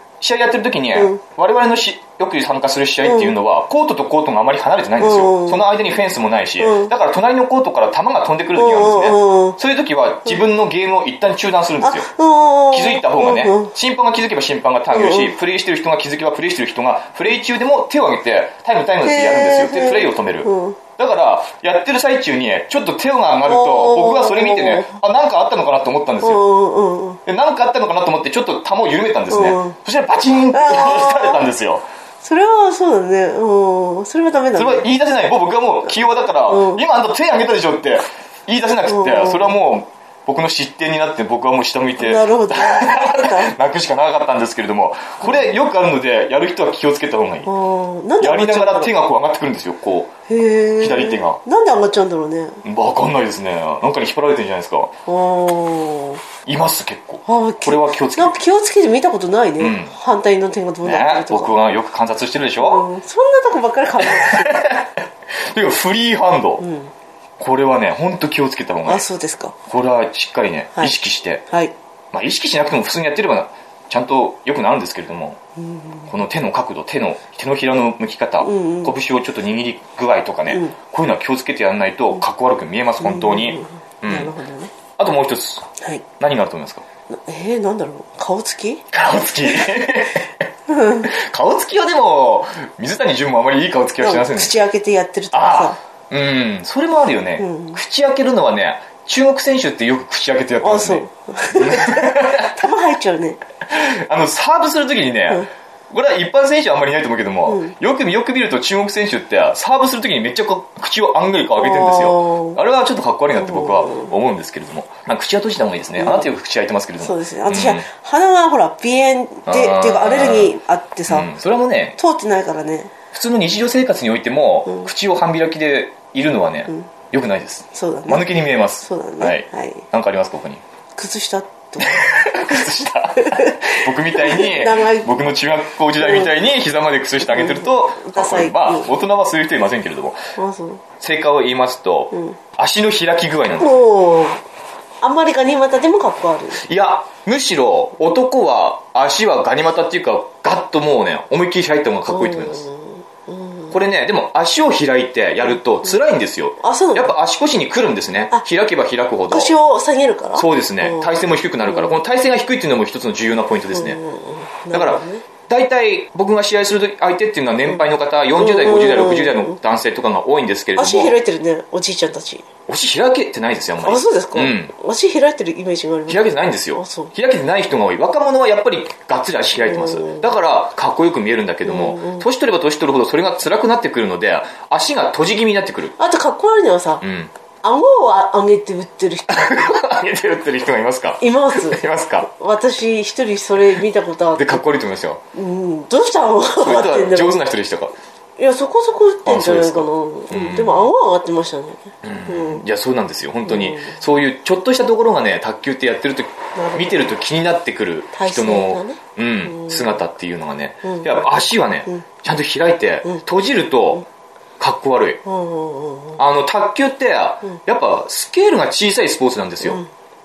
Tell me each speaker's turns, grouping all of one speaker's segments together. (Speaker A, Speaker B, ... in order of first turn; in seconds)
Speaker A: 0.2-12.1, 12.7-26.4, 27.3-31.8, 34.5-47.5, 48.2-50.1, 50.8-51.4, 52.6-54.9, 56.5-58.4, 59.6-60.0, 60.8-62.9, 64.0-64.9, 65.5-66.7, 67.4-69.0, 69.7-71.4, 72.1-75.4, 76.1-84.3, 85.0-85.7, 86.2-86.8, 88.9-90.3, 91.0-94.5, 95.3-102.6, 103.7-117.9, 119.5-120.6, 121.1-122.0, 123.1-130.6, 131.8-140.2, 141.0-143.8, 146.5-152.7, 153.7-159.5, 160.3-164.0, 164.7-171.2, 172.7-174.7, 176.1-185.9, 187.0-187.3, 189.3-192.3, 194.4-195.2, 196.6-197.9, 199.3-200.9, 202.0-214.1, 214.6-215.2, 216.2-219.8
Speaker B: 0.9-1.2, 3.0-3.4, 5.0-5.7, 6.6-6.9, 8.6-9.6, 11.8-13.7, 14.9-15.3, 19.0-20.8, 23.4-25.0, 26.2-27.2, 29.3-29.8, 30.5-31.4, 32.2-34.9, 36.5-36.9, 38.9-39.5, 42.0-43.5, 45.2-45.5, 47.5-48.9, 50.3-52.6, 55.1-56.2, 57.3-61.6, 62.6-64.7, 66.6-66.9, 68.9-69.5, 71.5-71.7, 75.6-76.1, 78.4-78.9, 80.5-80.8, 83.0-84.7, 87.1-88.8, 90.7-91.1, 94.0-95.8, 97.4-97.8, 100.6-103.4, 107.5-107.7, 111.6-112.6, 113.3-114.1, 116.0-116.3, 117.0-121.3, 122.0-122.9, 127.7-128.2, 128.8-129.8, 131.0-135.1, 136.0-136.3, 137.2-138.9, 140.4-140.8, 143.6-144.4, 145.0-146.6, 152.1-153.8, 156.6-157.2, 159.3-161.1, 161.7-162.0, 163.7-165.2, 168.4-169.6, 170.8-172.5, 173.8-177.1, 179.6-180.3, 181.7-182.3, 186.0-187.0, 187.6-189.8, 191.2-194.7, 195.3-197.4, 198.4-202.7, 203.4-204.0, 206.6-207.1, 208.1-210.0, 210.8-211.3, 215.2-216.2, 219.6-219.9